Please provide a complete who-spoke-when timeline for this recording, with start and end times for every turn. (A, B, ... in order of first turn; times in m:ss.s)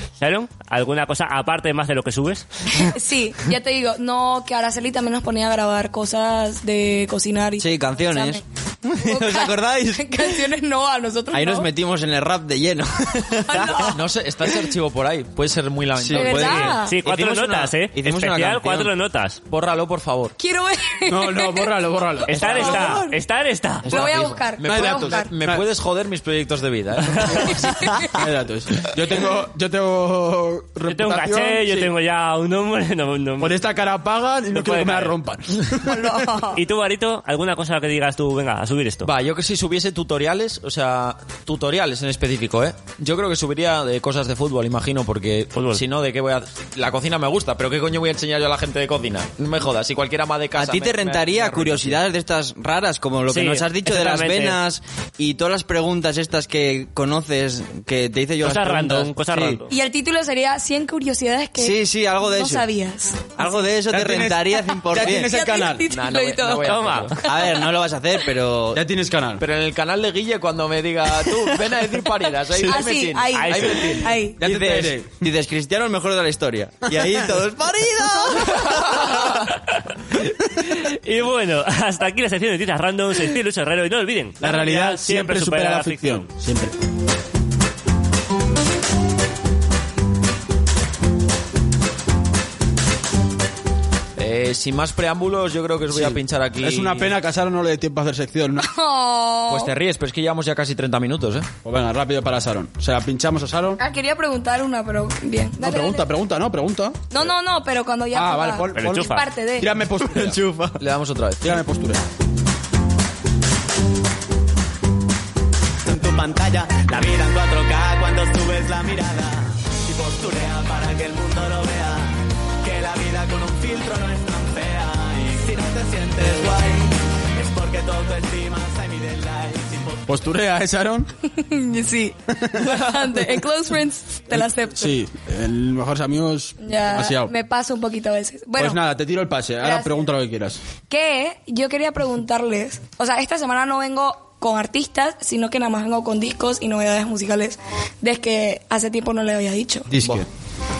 0:00.2-0:02.9 A
0:02.7-0:08.4 B
0:07.6-0:10.4 C
0:09.0-0:11.7 B
0:11.3-0:14.0 C
0:13.5-0:14.0 B
0:13.9-0:16.4 D
0:15.9-0:18.9 C
0:16.1-0:17.0 B
0:16.3-0:19.4 A
0:19.5-0:20.3 D
0:20.4-0:21.7 B
0:21.1-0:23.0 E
0:22.3-0:23.2 B
0:22.3-0:24.2 A
0:23.8-0:25.3 B
0:23.8-0:28.0 D
0:24.6-0:25.7 E
0:27.4-0:28.2 B
0:28.0-0:31.9 E
0:30.9-0:33.6 A
0:33.4-0:36.3 E
0:34.5-0:35.1 A
0:35.8-0:36.6 B
0:36.5-0:39.1 A
0:39.0-0:52.0 D
0:45.5-0:45.8 A
0:50.6-0:59.6 C
0:53.3-0:54.6 A
0:58.4-0:59.7 A
0:59.7-1:03.3 B
1:01.6-1:02.6 C
1:03.4-1:05.3 C
1:03.9-1:05.8 E
1:05.0-1:07.6 B
1:05.8-1:07.2 D
1:06.6-1:07.2 A
1:07.2-1:08.8 C
1:08.7-1:09.4 E
1:09.4-1:14.7 D
1:12.6-1:14.4 B
1:13.3-1:14.0 A
1:14.4-1:15.1 E
1:14.4-1:19.2 C
1:16.9-1:17.3 E
1:19.5-1:26.3 A
1:24.4-1:26.7 E
1:34.2-1:37.1 D
1:35.9-1:38.7 E
1:38.6-1:39.7 B
1:39.5-1:41.5 D
1:41.6-1:43.8 E
1:43.8-1:46.0 B
1:45.6-1:47.3 E
1:47.1-1:49.7 B
1:48.1-1:50.4 E
1:48.7-1:49.2 A
1:50.0-1:50.8 C
1:50.8-1:51.6 D
1:51.4-1:52.0 E
1:55.8-2:10.2 F
2:10.1-2:11.1 E
2:11.2-2:14.9 B
2:12.3-2:13.4 E
2:14.3-2:17.3 E
2:16.6-2:18.8 B
2:18.6-2:20.6 E
2:19.6-2:20.0 B
2:20.9-2:29.9 B
2:29.9-2:30.3 E
2:30.0-2:30.2 C